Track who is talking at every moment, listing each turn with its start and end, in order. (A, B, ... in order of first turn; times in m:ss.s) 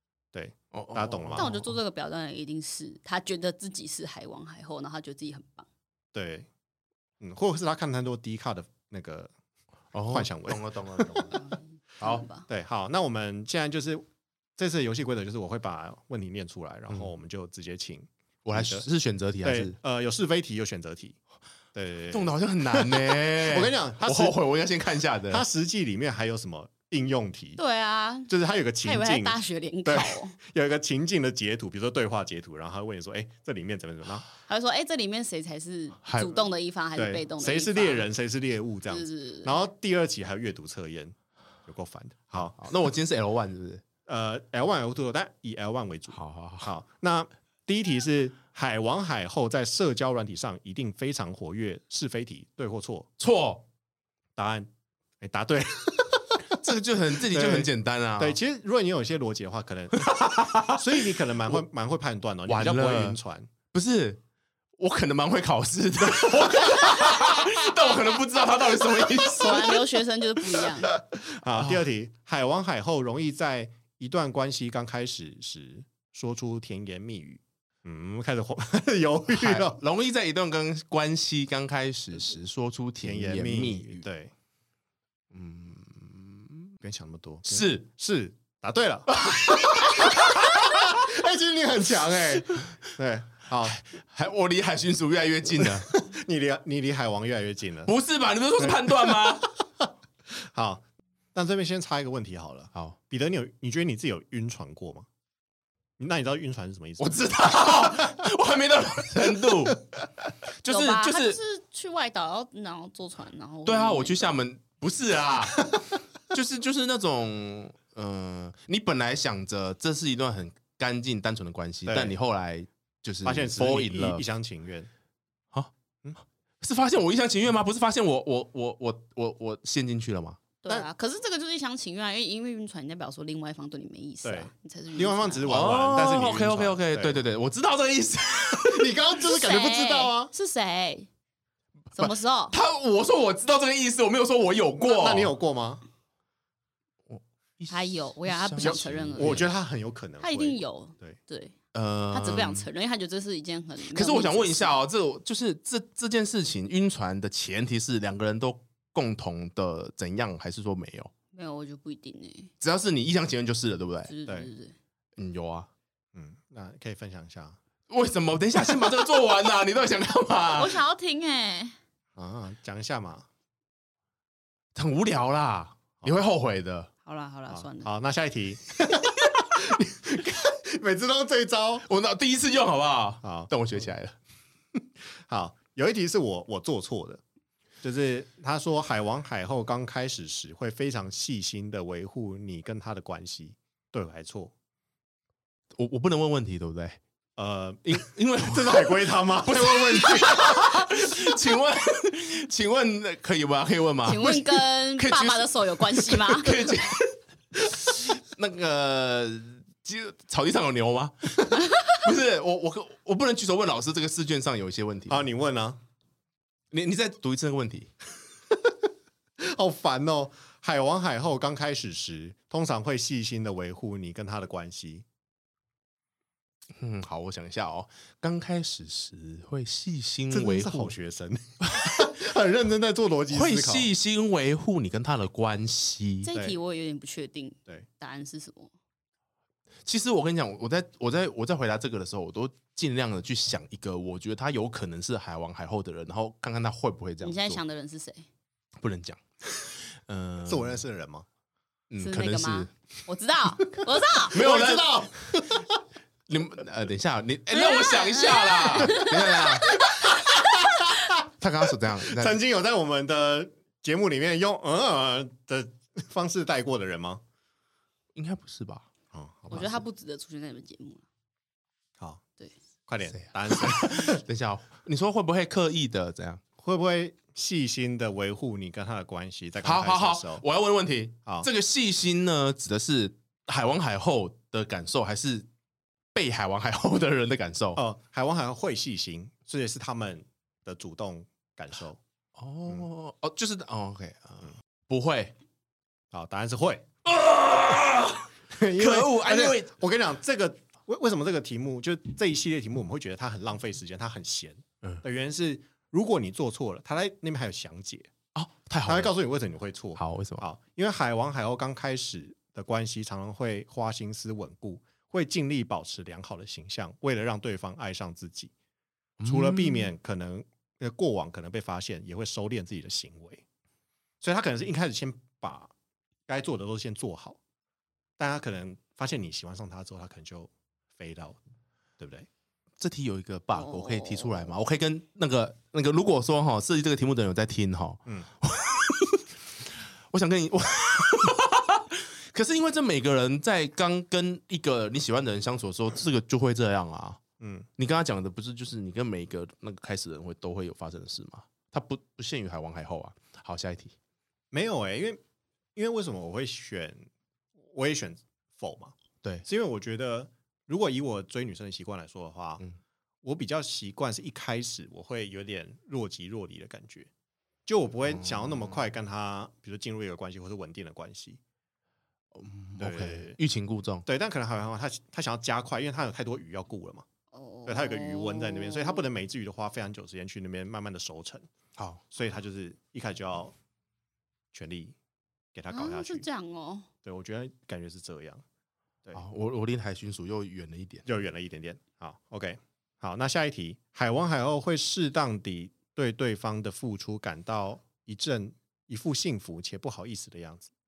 0:00.3-0:01.6 A
0:00.7-0:01.7 B
0:01.4-0:05.7 C
0:06.1-0:06.5 A
0:07.2-0:09.3 A
0:09.9-0:11.4 B
0:10.1-0:11.3 A
0:11.3-0:12.5 C
0:12.0-0:14.0 A
0:14.6-0:18.8 A
0:18.4-0:19.8 B
0:19.4-0:21.2 A
0:21.7-0:24.4 A
0:22.1-0:25.4 B
0:25.3-0:27.6 A
0:27.6-0:28.3 C
0:28.3-0:34.3 A
0:28.8-0:30.4 C
0:34.4-0:38.1 C
0:36.0-0:36.4 B
0:37.0-0:41.1 A
0:38.9-0:39.6 C
0:41.6-0:42.7 A
0:42.6-0:43.8 B
0:44.1-0:53.1 A
0:46.1-0:46.7 B
0:53.2-0:53.6 B
0:54.4-0:54.7 A
0:55.2-0:56.6 A
0:56.5-0:58.4 B
0:57.3-1:03.5 A
0:59.9-1:01.6 B
1:02.5-1:03.2 B
1:03.7-1:04.2 B
1:04.8-1:09.8 B
1:06.0-1:07.5 A
1:09.2-1:11.0 C
1:11.2-1:19.8 A
1:19.3-1:24.0 B
1:23.0-1:24.3 A
1:25.3-1:26.8 B
1:26.8-1:33.8 A
1:27.4-1:27.9 B
1:29.2-1:31.0 B
1:33.6-1:35.9 B
1:35.6-1:37.9 A
1:37.8-1:39.5 B
1:38.6-1:39.2 A
1:40.3-1:40.8 A
1:41.3-1:45.0 A
1:46.0-1:48.2 A
1:47.0-1:49.8 B
1:50.6-1:51.4 B
1:50.7-1:54.3 C
1:53.6-1:55.7 B
1:56.3-2:04.2 B
2:01.8-2:02.2 A
2:03.2-2:04.9 A
2:06.6-2:10.4 B
2:10.6-2:15.5 C
2:14.2-2:17.2 A
2:15.5-2:19.0 B
2:18.5-2:20.3 A
2:19.2-2:21.1 C
2:21.9-2:22.6 C
2:22.0-2:25.3 B
2:24.8-2:25.8 A
2:27.1-2:29.5 B
2:27.7-2:29.5 C
2:28.6-2:31.2 A
2:30.2-2:31.5 C
2:31.7-2:32.7 B
2:32.1-2:34.8 C
2:33.9-2:41.1 B
2:41.3-2:42.5 C
2:42.6-2:44.1 B
2:44.1-2:44.7 C
2:45.2-2:45.7 B
2:46.1-2:47.6 A
2:47.9-2:50.8 B
2:50.5-2:51.8 C
2:52.2-2:53.2 A
2:54.7-2:56.9 B
2:57.0-2:57.9 C
2:57.5-3:01.8 A
3:01.8-3:04.2 B
3:03.2-3:03.5 A
3:05.3-3:07.2 A
3:07.8-3:14.5 A
3:15.8-3:17.0 B
3:17.4-3:21.0 A
3:17.8-3:35.2 B
3:24.0-3:26.7 C
3:35.1-3:35.8 A
3:36.7-3:37.9 B
3:39.4-3:45.0 A
3:46.8-3:50.9 B
3:50.3-3:53.9 A
3:53.3-3:56.3 B
3:56.2-3:58.7 C
3:59.8-4:07.6 B
4:07.2-4:08.3 C
4:08.8-4:09.2 B
4:10.0-4:10.8 B
4:10.4-4:11.2 A
4:11.9-4:12.7 B
4:12.0-4:14.4 C
4:14.2-4:15.4 B
4:14.3-4:15.8 A
4:16.3-4:20.0 B
4:17.5-4:20.3 C
4:18.8-4:19.4 A
4:20.1-4:20.7 A
4:21.2-4:22.4 B
4:22.0-4:27.2 A
4:28.1-4:28.9 B
4:29.1-4:29.8 A
4:29.5-4:31.0 C
4:32.9-4:34.2 A
4:33.5-4:36.4 B
4:36.6-4:40.4 A
4:39.6-4:45.5 B
4:46.1-4:47.8 B
4:47.8-4:52.0 A
4:52.3-4:55.3 B
4:56.1-4:56.8 A
4:57.0-4:59.7 B
4:58.5-5:08.1 A
5:08.3-5:09.1 B
5:08.8-5:18.5 A
5:10.0-5:10.4 B
5:19.2-5:19.9 B
5:19.2-5:23.4 A
5:24.2-5:25.7 A
5:26.3-5:27.4 A
5:28.2-5:31.4 A
5:32.0-5:32.3 A
5:32.8-5:39.3 B
5:33.5-5:34.5 C
5:40.1-5:47.2 B
5:47.4-5:47.7 A
5:47.8-5:53.9 B
5:54.5-5:55.2 A
5:55.7-5:57.1 A
5:57.6-6:02.6 A
6:03.2-6:07.1 A
6:07.6-6:11.4 A
6:08.1-6:08.8 B
6:12.3-6:14.0 B
6:12.8-6:13.4 A
6:14.0-6:17.0 A
6:17.3-6:19.0 C
6:17.6-6:21.5 A
6:21.8-6:22.0 B
6:22.1-6:23.5 A
6:24.5-6:24.9 A
6:25.5-6:26.2 A
6:25.7-6:26.9 C
6:27.0-6:28.4 A
6:29.1-6:31.0 B
6:31.0-6:40.7 A